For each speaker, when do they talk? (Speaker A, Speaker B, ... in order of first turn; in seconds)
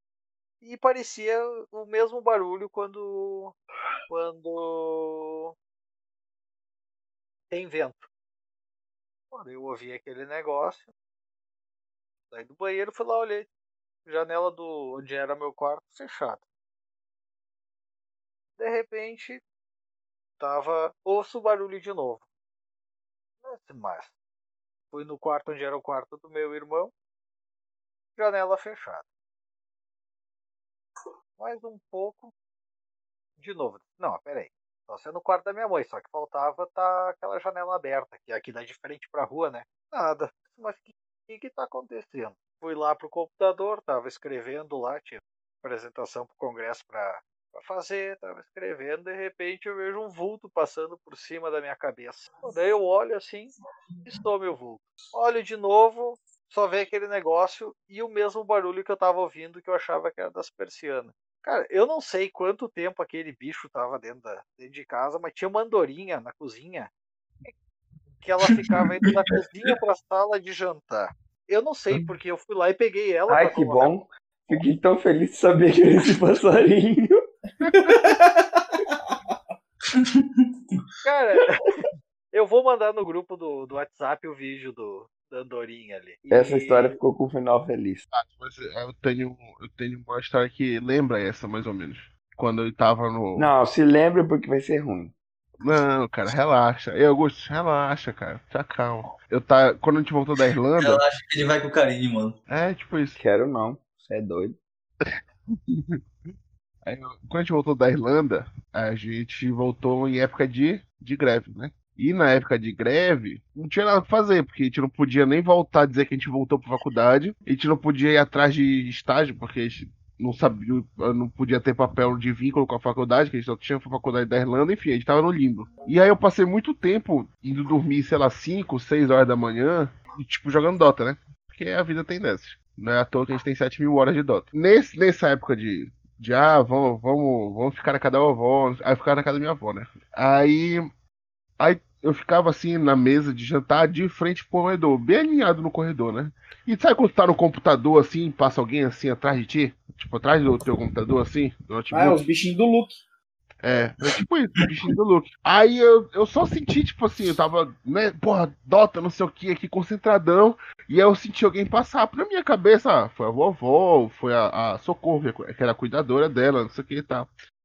Speaker A: 0.6-3.5, 4.1-5.5, 7.5-8.1, 9.3-10.9, 12.3-13.5, 14.1-16.4, 18.6-19.4, 20.4-22.2, 23.4-24.1, 24.9-26.9, 28.2-29.1, 31.4-32.3, 33.4-53.5, 54.0-66.9, 68.2-74.0, 81.0-87.0
Speaker B: 68.6-69.1, 79.9-80.8, 100.8-102.4
Speaker C: 73.3-77.2, 86.3-88.0, 93.3-95.1, 103.2-104.6
Speaker D: 77.7-77.9, 88.1-93.5, 95.6-101.0, 102.5-103.2, 105.7-106.0, 106.8-140.9, 141.6-152.2, 153.6-167.3
Speaker E: 77.7-79.3, 151.9-152.9